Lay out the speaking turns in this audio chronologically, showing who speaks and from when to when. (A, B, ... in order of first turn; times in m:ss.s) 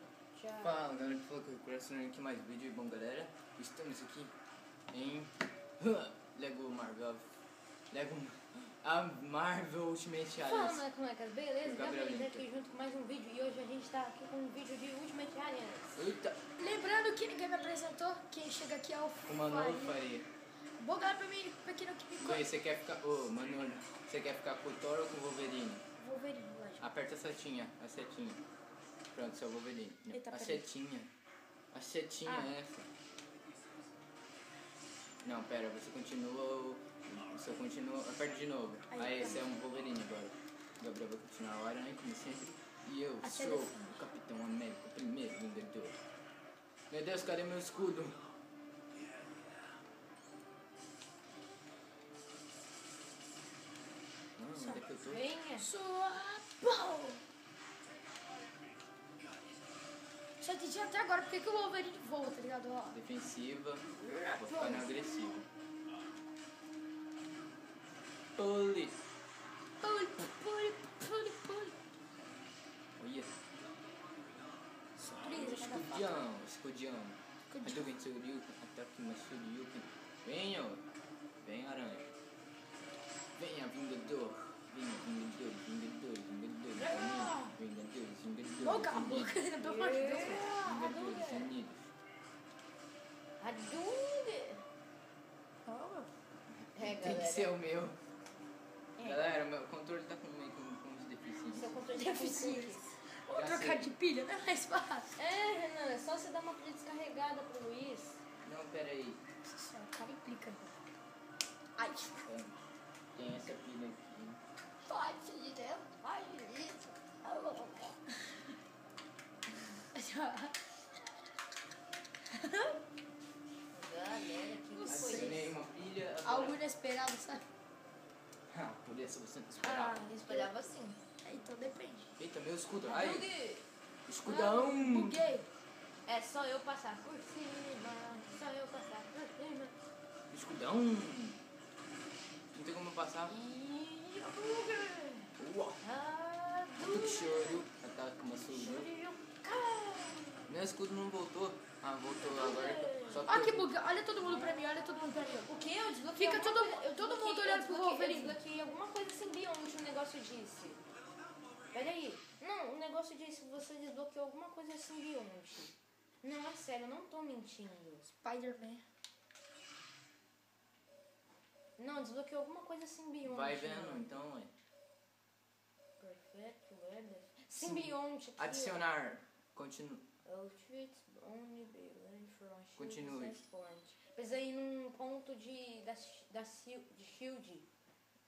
0:00.3-0:00.8 A
0:00.6-0:04.3 B
0:04.9-0:07.2 B
0:07.9-0:10.8 B
0:10.4-0:15.9 A
0:11.6-0:12.5 B
0:16.0-0:16.4 B
0:16.6-0:20.0 C
0:19.2-0:20.3 B
0:20.8-0:22.5 C
0:22.2-0:25.8 B
0:26.0-0:26.8 C
0:26.8-0:28.4 B
0:29.1-0:31.1 B
0:30.1-0:30.6 C
0:31.7-0:32.9 B
0:35.2-0:46.0 B
0:38.9-0:39.5 C
0:43.2-0:44.0 C
0:46.9-0:48.3 B
0:54.4-0:55.3 B
0:55.1-0:55.7 A
0:55.6-0:57.2 C
1:00.4-1:03.0 C
1:02.9-1:05.5 B
1:04.0-1:05.4 C
1:08.4-1:09.0 B
1:09.8-1:11.8 C
1:13.0-1:13.4 B
1:15.0-1:16.1 C
1:15.2-1:20.8 B
1:17.5-1:17.9 C
1:21.4-1:22.1 B
1:23.4-1:29.4 B
1:26.8-1:27.3 A
1:26.8-1:27.5 C
1:28.6-1:31.5 C
1:29.6-1:31.0 A
1:30.4-1:31.9 B
1:33.4-1:34.6 A
1:35.7-1:36.1 C
1:36.8-1:37.5 A
1:36.8-1:38.0 B
1:39.0-1:39.2 A
1:39.0-1:41.8 B
1:41.5-1:42.9 A
1:41.9-1:45.1 C
1:43.3-1:43.9 B
1:45.2-1:48.2 A
1:48.4-1:49.2 B
1:49.5-1:50.8 C
1:51.8-1:52.3 C
1:52.2-1:52.6 B
1:53.1-1:54.4 B
1:54.9-1:56.6 C
1:56.0-1:56.9 A
1:57.2-1:58.5 C
1:59.9-2:00.6 C
2:02.3-2:02.8 C
2:03.7-2:05.5 A
2:04.8-2:05.5 C
2:04.9-2:06.6 B
2:06.2-2:07.4 C
2:08.5-2:10.0 B
2:09.6-2:10.5 C
2:10.0-2:11.0 A
2:11.2-2:12.1 C
2:12.2-2:13.3 B
2:12.9-2:13.6 A
2:14.1-2:15.2 B
2:14.2-2:15.5 C
2:16.1-2:19.8 A
2:20.3-2:21.4 B
2:22.5-2:23.4 B
2:23.3-2:27.6 A
2:25.4-2:25.8 B
2:26.8-2:28.9 B
2:28.5-2:30.5 A
2:30.5-2:33.7 B
2:32.2-2:33.3 A
2:33.3-2:35.5 C
2:34.2-2:40.8 A
2:36.1-2:38.4 C
2:41.7-2:48.0 A
2:48.2-2:48.8 C
2:51.8-2:54.2 A
2:53.2-2:54.5 B
2:56.0-2:58.8 A
2:57.6-3:00.0 B
3:00.2-3:07.7 A
3:02.8-3:03.4 B